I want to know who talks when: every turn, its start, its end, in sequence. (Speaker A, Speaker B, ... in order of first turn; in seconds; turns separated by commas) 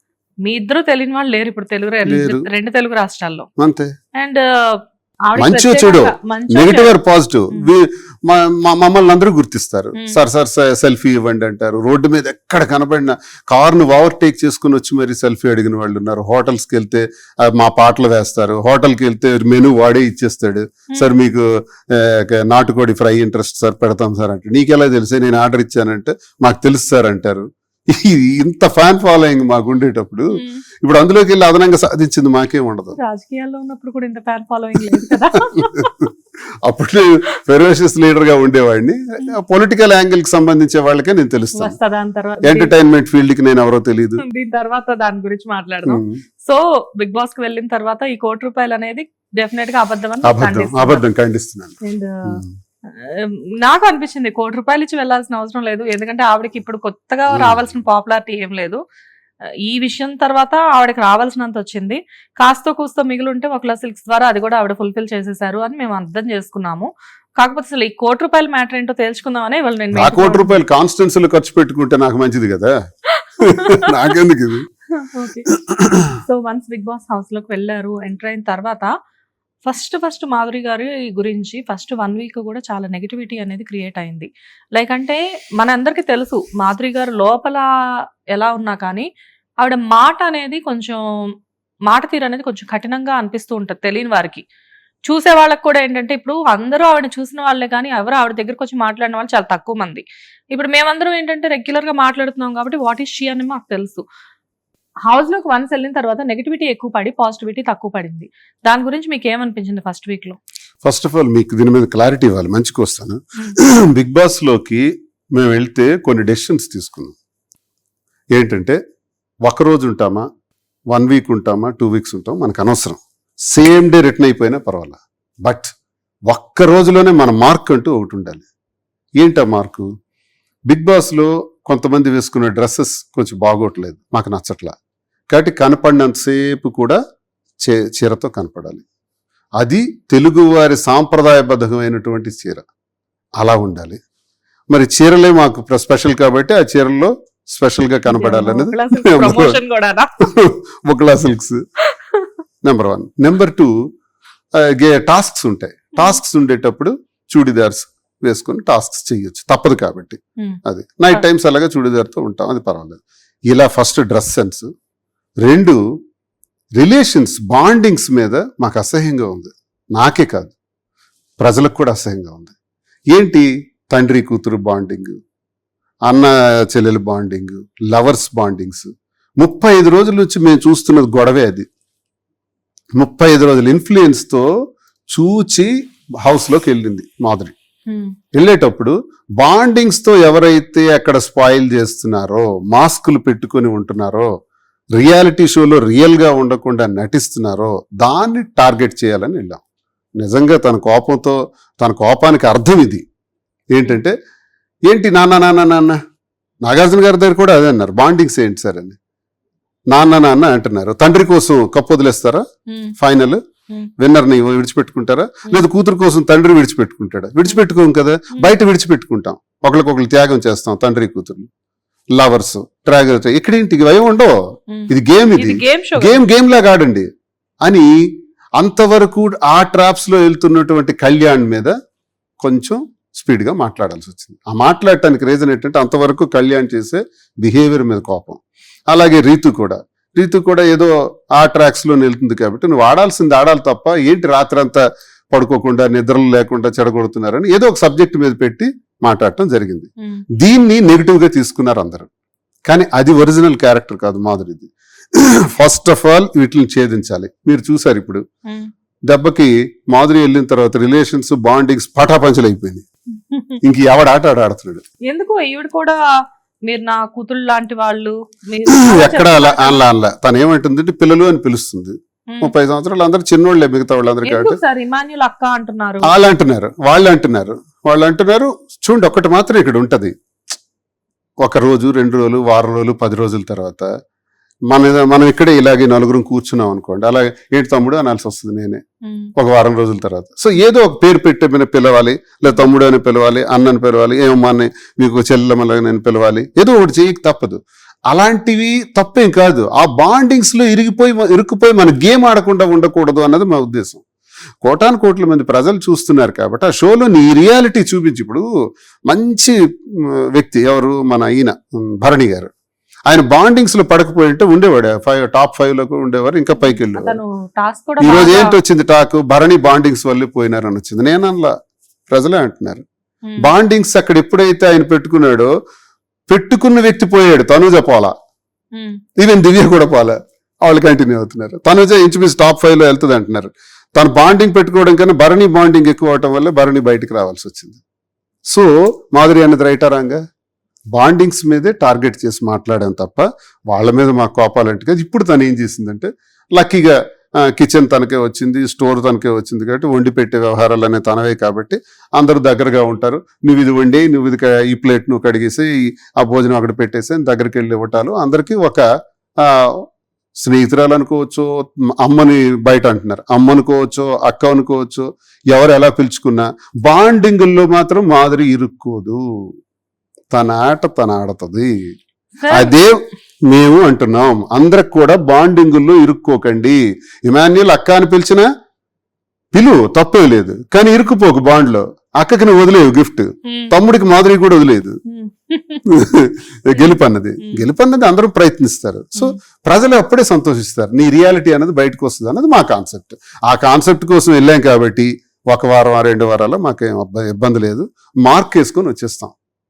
Speaker A: 0.4-3.5, Speaker B: 2.0-2.4, Speaker B: 3.6-3.9, Speaker A: 4.2-7.0, Speaker B: 5.3-33.0, Speaker A: 30.3-30.6, Speaker A: 33.0-35.9, Speaker B: 35.5-36.1, Speaker B: 36.6-41.8, Speaker A: 41.5-42.7, Speaker B: 42.4-44.2, Speaker A: 44.2-51.0, Speaker B: 45.9-46.2, Speaker B: 50.2-51.7, Speaker A: 51.8-58.8, Speaker B: 57.3-57.6, Speaker A: 59.6-70.5, Speaker B: 69.9-72.7, Speaker A: 73.2-73.8, Speaker B: 73.4-74.6, Speaker A: 75.0-75.5, Speaker B: 75.5-76.1, Speaker A: 76.2-78.9, Speaker A: 79.6-87.6, Speaker A: 88.3-89.1, Speaker A: 89.6-91.0, Speaker A: 91.9-94.4, Speaker A: 95.1-104.0, Speaker A: 105.1-110.4, Speaker B: 110.8-114.8, Speaker B: 115.3-117.2, Speaker B: 118.3-118.8, Speaker B: 119.4-120.2, Speaker B: 120.9-123.0, Speaker B: 123.5-125.7, Speaker B: 126.3-128.4, Speaker B: 129.2-129.8, Speaker B: 130.7-134.7, Speaker B: 135.3-137.0, Speaker B: 137.6-138.8, Speaker B: 139.6-142.7, Speaker B: 143.4-144.0, Speaker B: 144.7-149.6, Speaker A: 148.1-150.1, Speaker B: 150.2-151.6, Speaker B: 152.6-153.7, Speaker B: 154.6-164.7, Speaker B: 165.4-165.8, Speaker B: 166.8-170.5, Speaker B: 171.4-172.5, Speaker B: 173.1-175.2, Speaker B: 176.1-178.9, Speaker B: 179.4-181.7, Speaker B: 183.0-184.4, Speaker B: 185.1-185.7, Speaker B: 186.2-187.5, Speaker A: 187.9-188.1, Speaker B: 188.3-194.3, Speaker B: 195.0-199.6, Speaker B: 200.2-203.0, Speaker B: 203.7-204.1, Speaker B: 204.9-206.0, Speaker B: 206.6-209.0, Speaker B: 209.9-212.4, Speaker A: 212.7-212.9, Speaker B: 213.0-213.4, Speaker B: 214.0-221.5, Speaker B: 222.2-224.3, Speaker A: 224.7-226.2, Speaker B: 224.9-227.1, Speaker B: 228.6-231.7, Speaker B: 232.4-244.8, Speaker B: 245.3-249.9, Speaker B: 250.4-252.1, Speaker B: 252.7-258.2, Speaker B: 259.1-262.8, Speaker A: 263.3-263.6, Speaker B: 263.6-264.8, Speaker A: 265.1-266.0, Speaker A: 266.7-269.8, Speaker B: 268.7-274.6, Speaker A: 274.2-276.1, Speaker B: 276.0-280.1, Speaker B: 281.4-283.9, Speaker B: 284.7-288.8, Speaker A: 289.0-289.3, Speaker B: 289.4-304.0, Speaker B: 304.6-308.4, Speaker B: 309.1-312.5, Speaker B: 313.1-317.2, Speaker A: 316.5-318.6, Speaker B: 318.0-321.5, Speaker B: 322.1-322.8, Speaker B: 323.4-325.5, Speaker B: 326.3-328.1, Speaker B: 329.2-337.8, Speaker B: 338.5-340.2, Speaker B: 340.9-346.9, Speaker B: 347.5-358.8, Speaker B: 359.4-359.7, Speaker B: 360.4-361.5, Speaker B: 362.0-369.2, Speaker B: 370.3-371.7, Speaker A: 372.4-372.7, Speaker B: 372.5-372.9, Speaker B: 373.5-378.5, Speaker B: 379.5-385.0, Speaker A: 383.4-383.7, Speaker A: 385.1-385.9, Speaker B: 385.9-399.3, Speaker A: 386.7-387.6